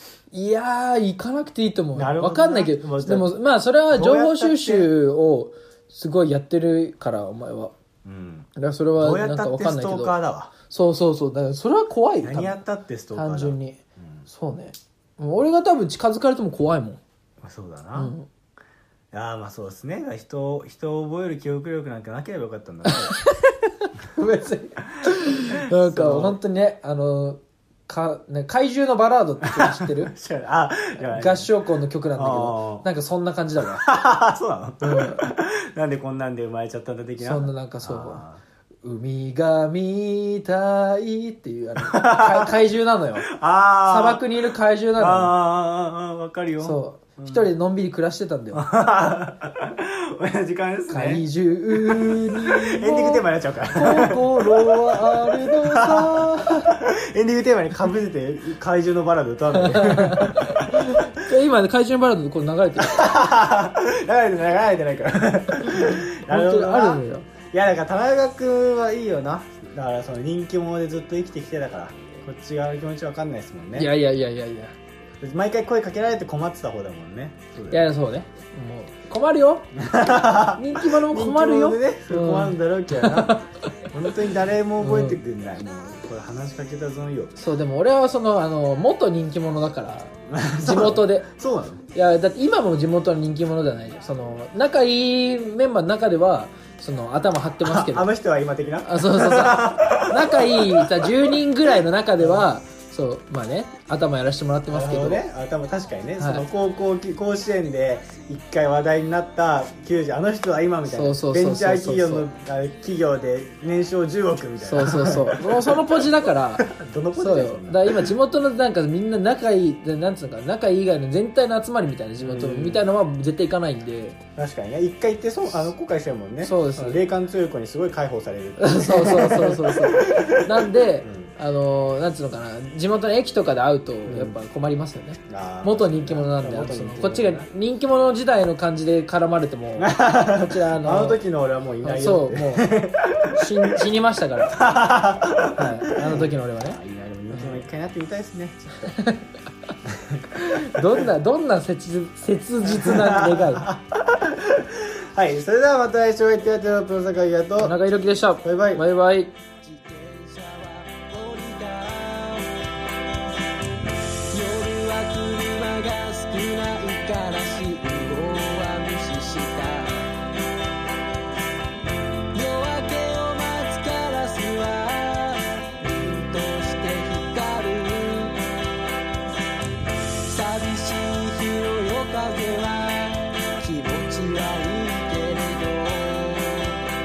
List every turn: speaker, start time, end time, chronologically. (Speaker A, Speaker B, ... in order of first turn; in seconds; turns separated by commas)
Speaker A: 0.3-7.7, Speaker B: 1.9-3.3, Speaker B: 3.9-4.9, Speaker B: 8.0-10.5, Speaker A: 8.6-12.6, Speaker B: 12.2-14.2, Speaker A: 13.1-17.0, Speaker B: 17.4-18.1, Speaker A: 17.9-18.3, Speaker B: 19.1-23.1, Speaker A: 22.9-30.1, Speaker B: 24.8-26.4, Speaker B: 29.5-31.5, Speaker A: 31.1-33.9, Speaker B: 32.1-32.9, Speaker B: 33.6-38.4, Speaker A: 34.8-35.3, Speaker A: 37.2-38.2, Speaker A: 38.8-43.3, Speaker B: 41.8-42.5, Speaker B: 43.2-44.3, Speaker A: 43.8-45.3, Speaker B: 45.0-47.5, Speaker A: 46.6-48.6, Speaker B: 48.5-61.0, Speaker A: 50.9-56.7, Speaker A: 59.5-63.1, Speaker B: 62.8-73.9, Speaker A: 65.6-67.3, Speaker A: 73.8-74.7, Speaker B: 75.2-77.9, Speaker A: 77.7-79.8, Speaker B: 79.7-87.4, Speaker A: 80.3-83.5, Speaker A: 84.8-85.2, Speaker A: 87.4-91.3, Speaker B: 90.3-91.8, Speaker A: 91.9-98.1, Speaker B: 97.6-101.4, Speaker A: 98.8-105.2, Speaker B: 102.2-102.5, Speaker B: 104.7-118.1, Speaker A: 106.2-106.4, Speaker A: 110.9-112.2, Speaker A: 114.6-124.2, Speaker B: 122.2-122.8, Speaker B: 124.3-131.3, Speaker A: 126.4-127.0, Speaker A: 128.6-141.2, Speaker B: 134.1-134.3, Speaker B: 135.3-137.5, Speaker B: 139.8-143.5, Speaker A: 141.8-142.7, Speaker A: 143.3-144.7, Speaker B: 144.5-148.9, Speaker A: 145.5-146.8, Speaker A: 147.3-147.6, Speaker A: 148.9-149.3, Speaker B: 149.8-150.2, Speaker A: 150.3-153.7, Speaker B: 152.6-157.8, Speaker A: 157.6-159.3, Speaker B: 158.4-158.8, Speaker C: 159.6-162.5, Speaker C: 164.3-170.1, Speaker C: 172.3-178.4, Speaker C: 180.2-186.8